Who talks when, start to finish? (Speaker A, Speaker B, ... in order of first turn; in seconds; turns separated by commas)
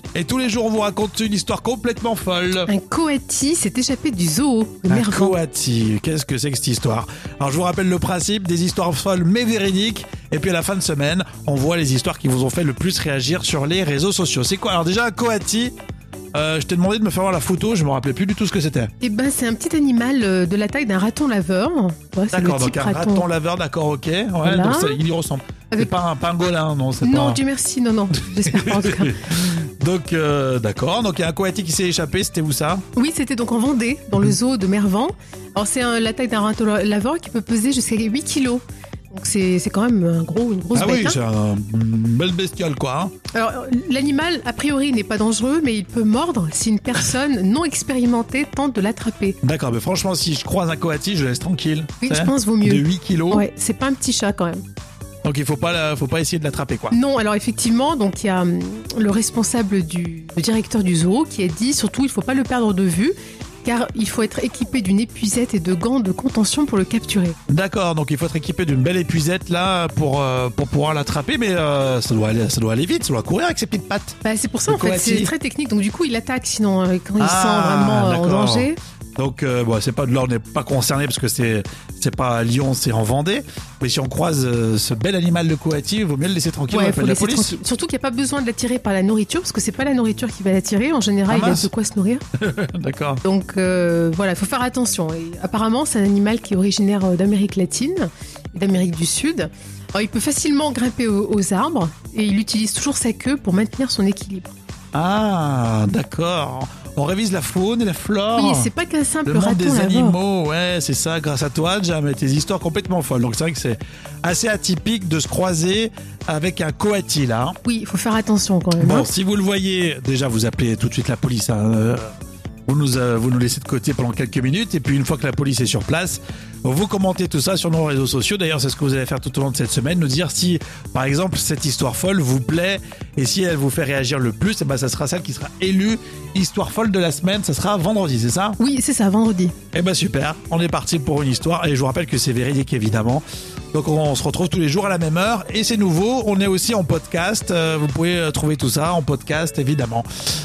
Speaker A: 0.1-2.7, Speaker B: 2.6-5.3, Speaker A: 4.9-15.7, Speaker A: 16.3-18.9, Speaker B: 19.0-23.2, Speaker A: 22.3-27.4, Speaker B: 24.4-25.0, Speaker B: 27.0-29.2, Speaker A: 28.5-32.8, Speaker B: 33.0-41.2, Speaker A: 40.7-43.1, Speaker B: 43.3-49.4, Speaker A: 49.4-53.5, Speaker B: 52.0-54.6, Speaker A: 55.2-56.9, Speaker B: 56.9-67.3, Speaker A: 67.5-75.3, Speaker B: 74.2-78.8, Speaker A: 77.2-87.5, Speaker B: 86.7-92.2, Speaker A: 91.3-91.7, Speaker A: 92.4-93.2, Speaker B: 93.2-104.5, Speaker A: 104.9-108.7, Speaker B: 108.3-110.2, Speaker A: 109.2-117.5, Speaker B: 117.7-119.1, Speaker A: 118.8-122.1, Speaker A: 122.7-138.6, Speaker B: 138.6-139.5, Speaker A: 139.7-150.1